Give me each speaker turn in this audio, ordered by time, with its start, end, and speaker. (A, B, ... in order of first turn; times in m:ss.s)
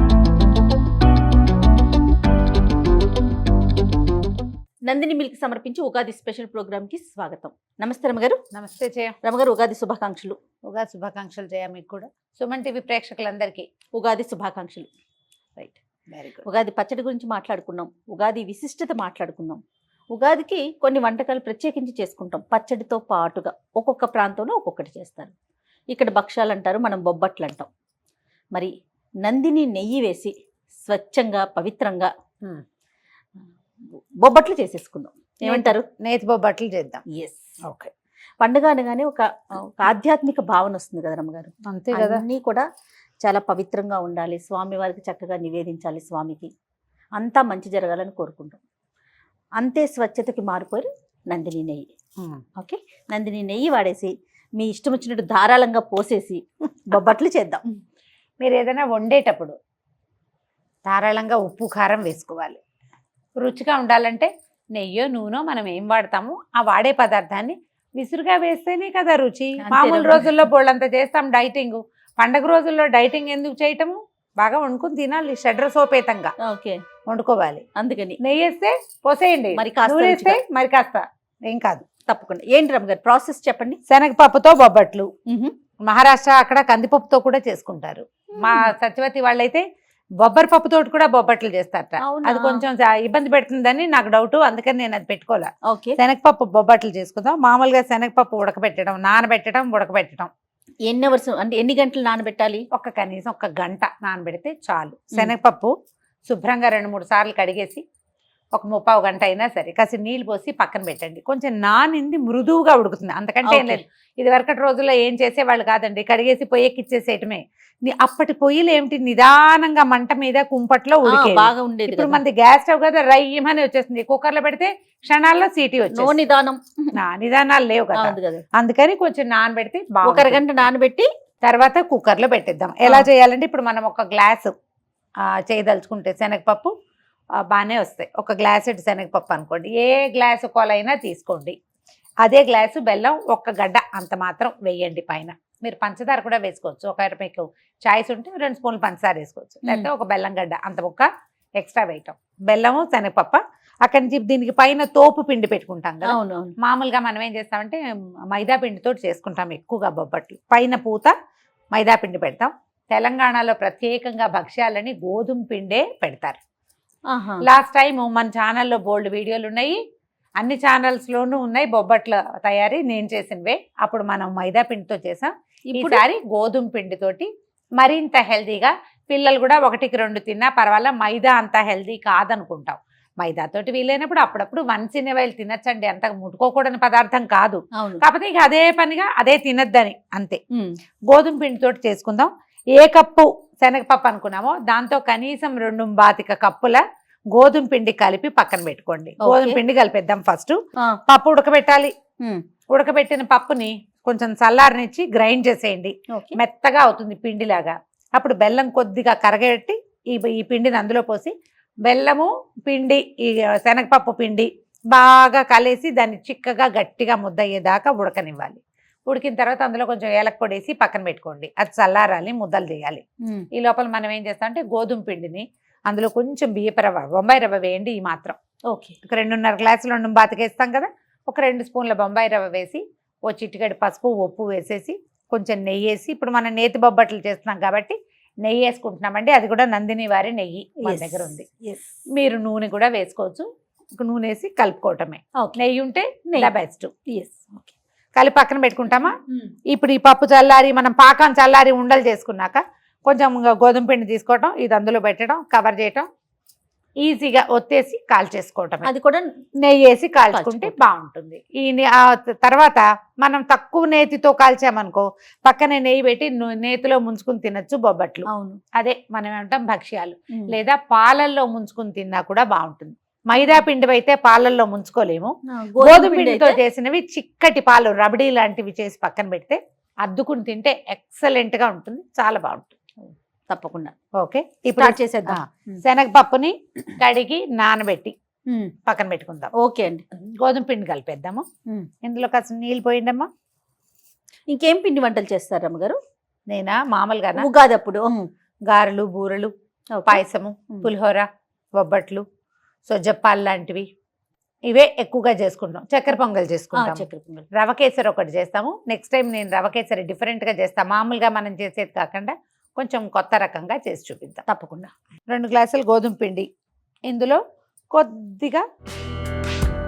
0:04.9-0:08.4 A
0:08.5-0:09.2 B
0:09.2-0:10.4 A
0:10.7-0:13.7 B
0:14.0-0:14.9 A
0:16.1-0:16.5 B
0:16.4-0:19.6 A
0:20.1-0:25.3 A
0:25.9-0:27.7 A
0:29.2-0:32.1 A
0:33.8-0:35.9 A
0:35.4-0:37.0 B
0:37.1-0:37.5 A
0:37.6-0:37.9 B
0:38.4-0:42.7 A
0:41.7-0:42.2 B
0:43.2-0:46.5 A
0:47.2-0:48.6 A
0:49.6-0:51.9 A
0:52.6-0:57.6 A
0:58.4-0:59.6 B
1:00.9-1:02.6 B
1:03.4-1:16.3 B
1:09.6-1:10.5 A
1:16.4-1:16.8 A
1:17.1-1:17.6 B
1:17.8-1:18.2 A
1:18.2-1:21.8 B
1:19.5-1:20.4 A
1:22.0-1:23.8 A
1:23.9-1:25.1 B
1:25.3-1:25.5 A
1:25.9-1:29.6 B
1:28.4-1:28.7 A
1:30.2-1:40.3 B
1:32.0-1:32.6 A
1:35.7-1:36.0 A
1:40.9-1:42.6 A
1:42.7-1:45.7 B
1:46.3-1:47.8 B
1:48.6-2:06.2 B
1:53.4-1:53.8 A
2:01.0-2:02.2 A
2:05.9-2:07.0 A
2:07.0-2:10.4 B
2:07.9-2:08.4 A
2:10.0-2:11.1 A
2:11.4-2:14.5 B
2:12.8-2:13.1 A
2:15.2-2:16.7 B
2:17.4-2:21.6 B
2:22.2-2:37.8 B
2:29.6-2:29.9 A
2:36.0-2:36.6 A
2:38.3-2:41.1 B
2:41.8-2:46.4 B
2:47.1-2:47.5 A
2:47.4-2:49.8 B
2:50.4-3:10.4 B
2:55.7-2:56.0 A
3:07.8-3:08.0 A
3:11.1-3:16.8 B
3:17.3-3:20.6 B
3:19.2-3:19.6 A
3:21.1-3:21.9 B
3:22.7-3:31.3 B
3:26.1-3:26.4 A
3:31.9-3:43.0 B
3:43.6-3:48.4 B
3:48.7-3:49.0 A
3:49.1-4:01.5 B
4:00.8-4:02.0 A
4:02.2-4:06.9 B
4:07.1-4:07.7 A
4:08.2-4:09.1 B
4:09.7-4:16.1 B
4:17.0-4:18.9 B
4:18.8-4:19.3 A
4:19.6-4:42.7 B
4:20.3-4:20.8 A
4:28.3-4:28.6 A
4:33.4-4:33.6 A
4:35.5-4:36.6 A
4:43.0-4:43.9 A
4:44.2-4:48.2 B
4:44.8-4:45.8 A
4:48.9-4:49.5 B
4:49.6-4:50.0 A
4:50.2-4:51.4 B
4:52.0-4:53.3 B
4:54.5-4:56.0 A
4:56.5-4:57.5 B
4:57.4-4:58.3 A
4:58.7-4:59.5 B
5:00.0-5:00.9 A
5:00.1-5:01.3 B
5:01.8-5:02.2 B
5:02.9-5:03.8 B
5:04.7-5:14.4 B
5:06.7-5:07.5 A
5:14.5-5:14.9 A
5:15.3-5:16.5 B
5:17.1-5:17.4 B
5:17.9-5:18.6 B